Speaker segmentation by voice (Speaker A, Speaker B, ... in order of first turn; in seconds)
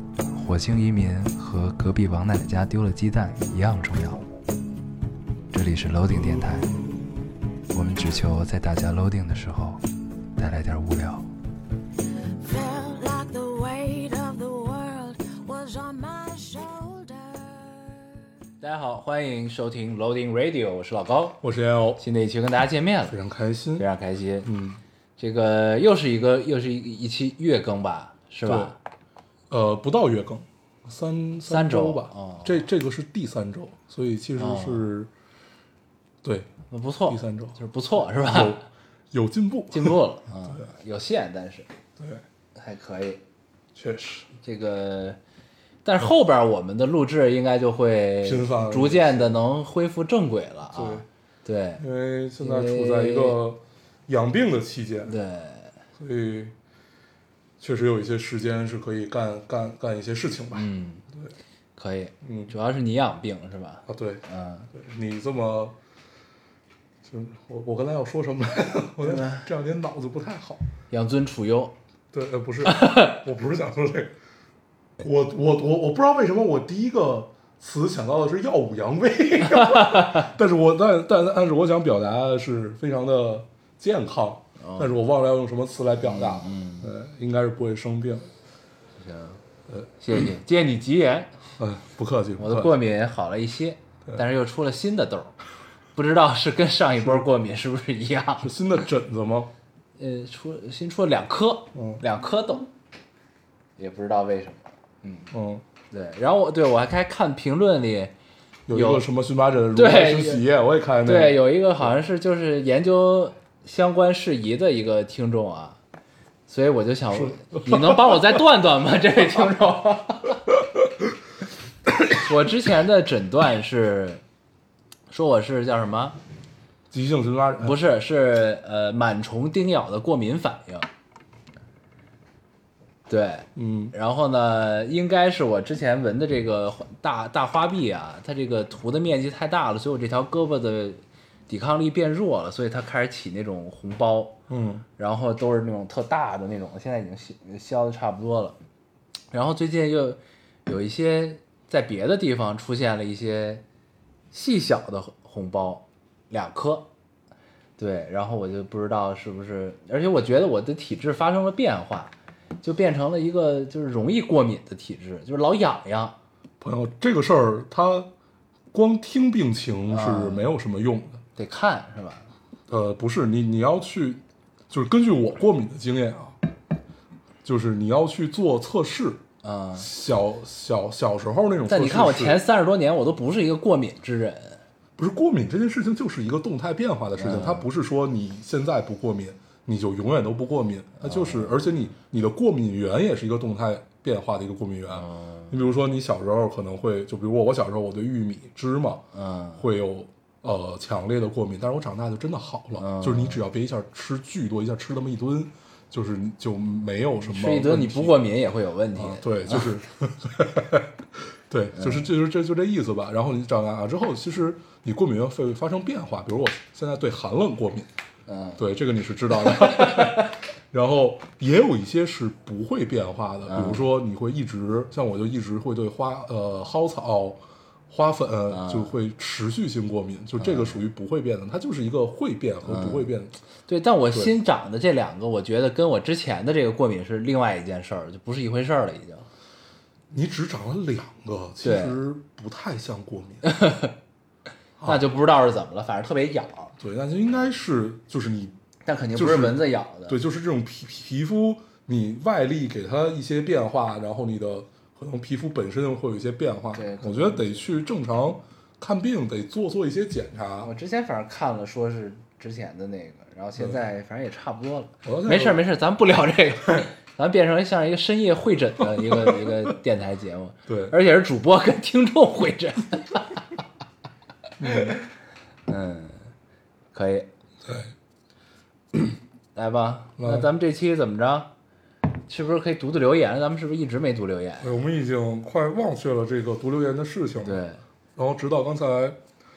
Speaker A: 0.3-4.2, 5.5-6.8, 7.7-9.8, 10.4-11.3, 18.6-21.4, 22.0-23.1, 23.8-24.5, 25.2-28.8, 31.5-32.6, 34.4-34.9, 36.7-38.6, 39.7-41.7, 42.5-43.2, 44.4-45.2, 45.8-51.8, 52.4-53.4, 55.0-55.8, 60.5-61.0, 61.8-64.7, 69.0-69.5, 70.9-71.7, 72.6-73.2, 79.5-80.3, 84.6-84.9, 86.0-86.9, 89.0-89.4, 90.0-91.3, 92.4-95.3, 95.9-98.5, 100.0-102.7, 103.8-105.3, 105.9-108.1, 108.7-109.0, 109.7-110.4, 111.0-115.8, 116.5-120.4, 122.1-124.2, 125.1-126.2, 127.6-130.9, 133.1-144.3, 145.0-148.6, 149.3-153.6, 154.3-156.9, 157.8-166.2, 169.9-170.4, 171.3-172.3, 179.4-179.9, 181.7-184.6, 187.2-187.7, 191.0-191.5, 194.9-195.5, 199.1-199.6, 202.8-203.4, 207.2-209.7, 211.7-212.1, 218.3-218.6, 219.4-220.2, 223.5-223.8, 228.5-228.9, 230.4-230.8, 232.7-233.1, 233.7-239.3, 241.6-242.0, 243.4-243.9, 244.8-246.7, 248.8-250.2, 256.7-257.6, 260.6-273.4, 274.6-275.0, 275.7-276.3, 276.9-277.3, 279.5-281.5, 282.3-284.8, 287.4-287.8
Speaker B: 12.3-18.1
Speaker C: 21.4-22.0, 23.1-23.9, 24.4-24.8, 28.4-28.8, 29.5-35.1, 36.2-36.5, 37.1-37.6, 38.1-40.6, 42.0-42.2, 43.7-44.3, 48.2-49.4, 50.7-51.0, 51.8-55.1, 56.0-56.5, 57.6-61.3, 62.2-62.5, 63.9-65.7, 67.0-70.7, 72.1-74.1, 75.0-88.3, 91.6-92.7, 98.4-99.5, 101.7-102.0, 105.3-105.6, 108.7-111.4, 117.1-118.4, 126.9-127.8, 133.6-133.9, 144.5-144.8, 166.6-168.1, 168.7-171.2, 172.7-176.4, 177.4-179.2, 179.7-182.4, 185.0-199.0, 199.6-208.2, 208.9-217.9, 218.6-233.4, 240.1-243.5, 246.8-248.6, 249.2-260.7, 265.0-265.6, 269.0-269.6, 270.7-270.9, 274.6-275.0, 277.6-277.9, 280.2-280.5, 284.6-287.6, 288.1-289.2